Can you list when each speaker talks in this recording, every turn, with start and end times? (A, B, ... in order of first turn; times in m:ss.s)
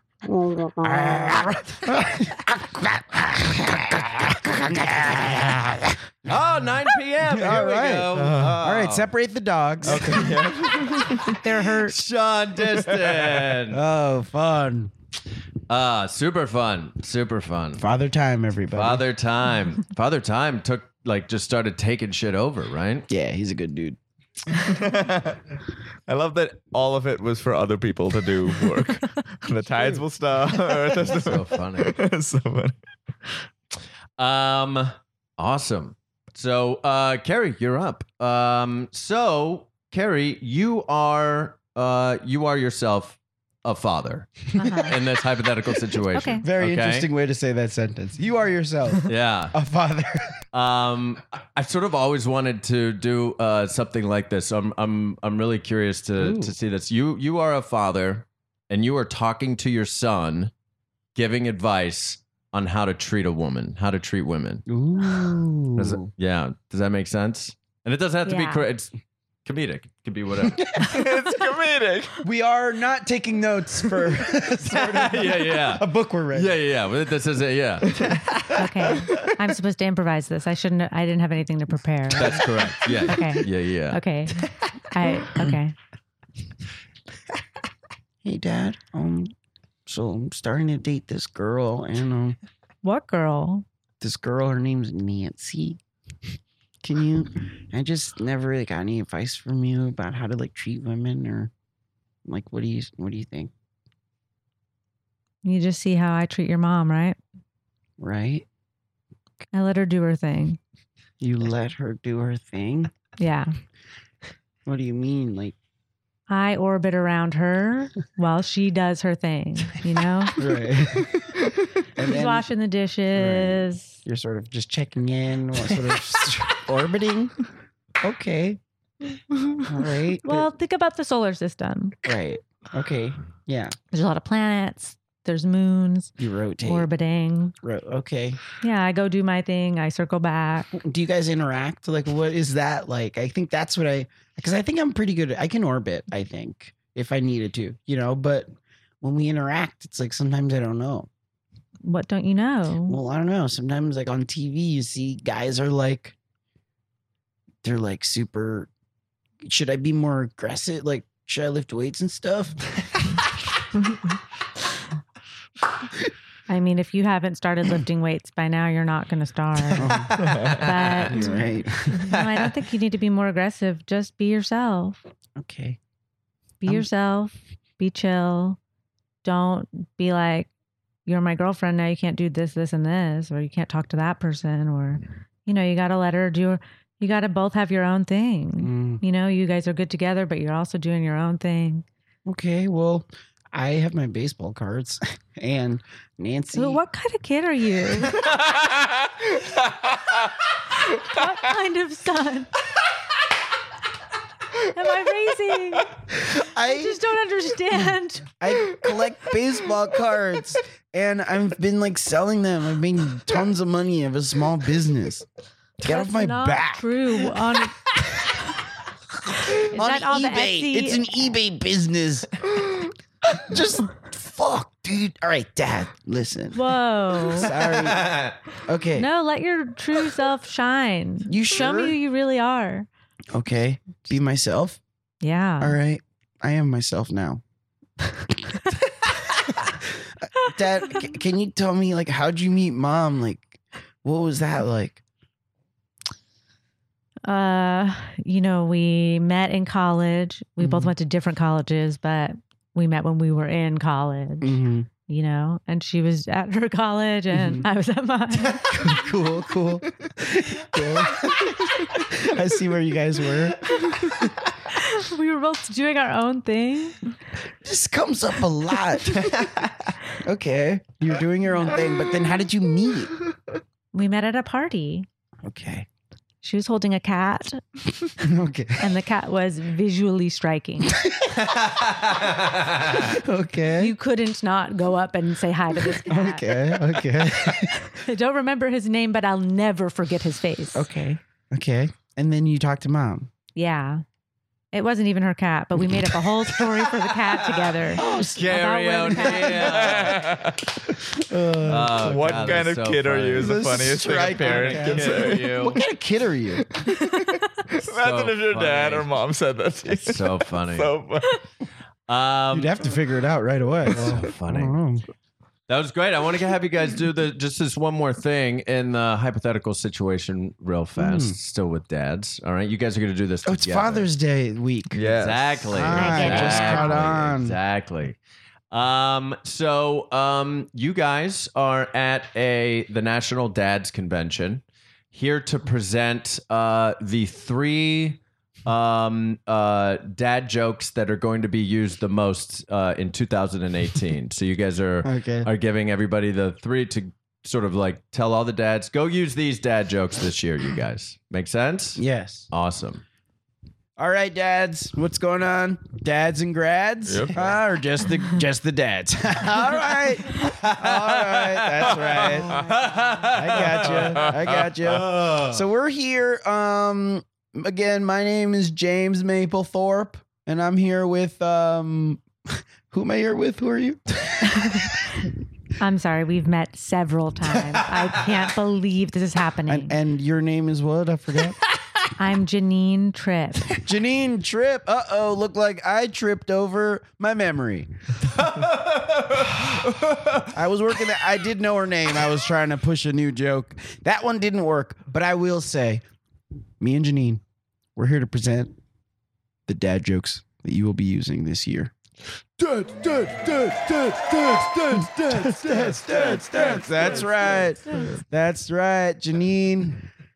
0:00.8-0:06.0 A
0:06.3-0:09.1 B
0:07.2-0:10.3 A
0:08.1-0:08.6 C
0:09.8-0:11.4 C
0:11.4-0:12.0 D
0:11.9-0:13.8 B
0:13.7-0:14.9 A
0:15.7-0:17.8 B
0:17.8-0:19.0 A
0:18.7-0:23.1 B
0:23.1-0:24.0 A
0:24.5-0:25.4 C
0:26.1-0:33.4 C
0:31.0-0:32.0 B
0:34.2-0:47.1 B
0:44.6-0:44.9 D
0:44.6-0:45.0 A
0:46.1-0:46.4 D
0:46.4-0:50.4 A
0:49.1-0:49.6 B
0:50.5-1:00.5 B
0:56.2-0:56.5 A
1:01.2-1:04.6 B
1:04.7-1:06.1 A
1:05.8-1:08.9 B
1:08.2-1:08.6 D
1:09.4-1:10.6 B
1:10.5-1:11.0 A
1:10.8-1:12.2 C
1:12.2-1:16.6 A
1:14.6-1:18.1 B
1:18.6-1:22.5 D
1:22.2-1:24.0 B
1:23.0-1:25.8 D
1:28.2-1:29.3 A
1:29.9-1:32.4 A
1:32.8-1:33.6 D
1:34.0-1:35.8 A
1:36.8-1:41.5 A
1:42.2-1:43.5 A
1:45.4-1:47.2 D
1:48.0-1:48.5 A
1:49.5-1:50.6 D
1:51.2-1:52.9 A
1:53.2-1:53.5 D
1:54.7-1:55.6 A
1:56.3-2:00.4 D
2:00.4-2:02.5 A
2:02.0-2:04.0 D
2:03.1-2:07.5 A
2:08.0-2:08.6 A
2:09.5-2:10.5 A
2:10.2-2:12.0 D
2:12.0-2:13.8 A
2:13.9-2:16.1 D
2:16.2-2:16.9 A
2:16.6-2:17.5 D
2:17.6-2:18.4 A
2:18.6-2:20.7 D
2:20.8-2:31.1 A
2:31.8-2:33.0 D
2:32.9-2:36.2 A
2:37.6-2:38.7 A
2:39.4-2:42.6 A
2:46.5-2:55.0 D
2:49.8-2:50.3 A
2:50.2-2:51.0 C
2:51.1-2:52.1 A
2:55.4-2:55.8 A
2:56.6-2:58.6 D
2:59.2-3:00.5 D
3:01.1-3:11.9 D
3:08.6-3:09.0 A
3:12.3-3:16.8 A
3:16.5-3:18.2 D
3:20.8-3:22.5 D
3:24.5-3:25.9 D
3:26.1-3:27.0 A
3:26.6-3:28.3 D
3:28.4-3:35.3 A
3:35.8-3:36.9 A
3:35.8-3:37.8 D
3:39.5-3:41.1 D
3:39.5-3:49.1 A
3:46.5-3:47.5 D
3:47.5-3:48.4 B
3:49.0-3:52.9 D
3:51.3-3:52.0 A
3:53.3-3:54.8 A
3:55.2-3:55.8 D
3:55.6-3:57.4 A
3:59.6-4:05.0 A
4:07.3-4:18.7 D
4:10.6-4:10.9 A
4:14.4-4:14.9 A
4:17.3-4:17.7 A
4:18.4-4:23.9 A
4:24.7-4:27.1 D
4:27.6-4:33.2 A
4:33.9-4:35.1 D
4:35.4-4:35.9 A
4:36.4-4:37.6 D
4:38.2-4:38.8 A
4:38.8-4:41.0 D
4:41.0-4:41.3 A
4:41.8-4:43.0 B
4:42.9-4:43.9 A
4:43.8-4:46.5 D
4:46.0-4:47.8 A
4:47.8-4:50.8 D
4:50.7-4:53.3 A
4:53.6-4:54.0 D
4:54.7-4:59.9 D
4:55.8-4:56.6 A
4:57.8-4:58.5 A
4:58.1-5:00.3 B
4:59.1-5:00.0 A
4:59.8-5:00.7 C
5:01.1-5:02.6 A
5:01.6-5:05.8 B
5:01.7-5:05.8 C
5:03.4-5:06.7 A
5:06.8-5:11.4 C
5:07.8-5:09.2 B
5:09.9-5:10.9 B
5:12.1-5:12.9 B
5:12.5-5:15.0 A
5:13.9-5:14.8 B
5:15.7-5:24.1 B
5:21.0-5:21.4 A
5:23.4-5:25.0 A
5:24.9-5:26.5 C
5:25.1-5:28.2 B
5:25.7-5:27.6 A
5:26.0-5:27.0 D
5:28.7-5:53.0 B
5:45.0-5:45.5 A
5:52.0-5:52.5 A
5:54.0-6:02.7 A
5:57.1-5:57.4 C
6:00.4-6:05.6 B
6:03.3-6:12.3 A
6:03.8-6:04.5 C
6:12.9-6:14.9 A
6:14.4-6:20.0 D
6:19.7-6:21.6 A
6:22.2-6:23.8 D
6:23.8-6:27.9 A
6:28.4-6:30.4 B
6:30.5-6:36.0 A
6:36.8-6:37.4 A
6:38.0-6:38.8 A
6:39.7-6:41.9 A
6:44.9-6:50.0 A
6:45.6-6:47.5 C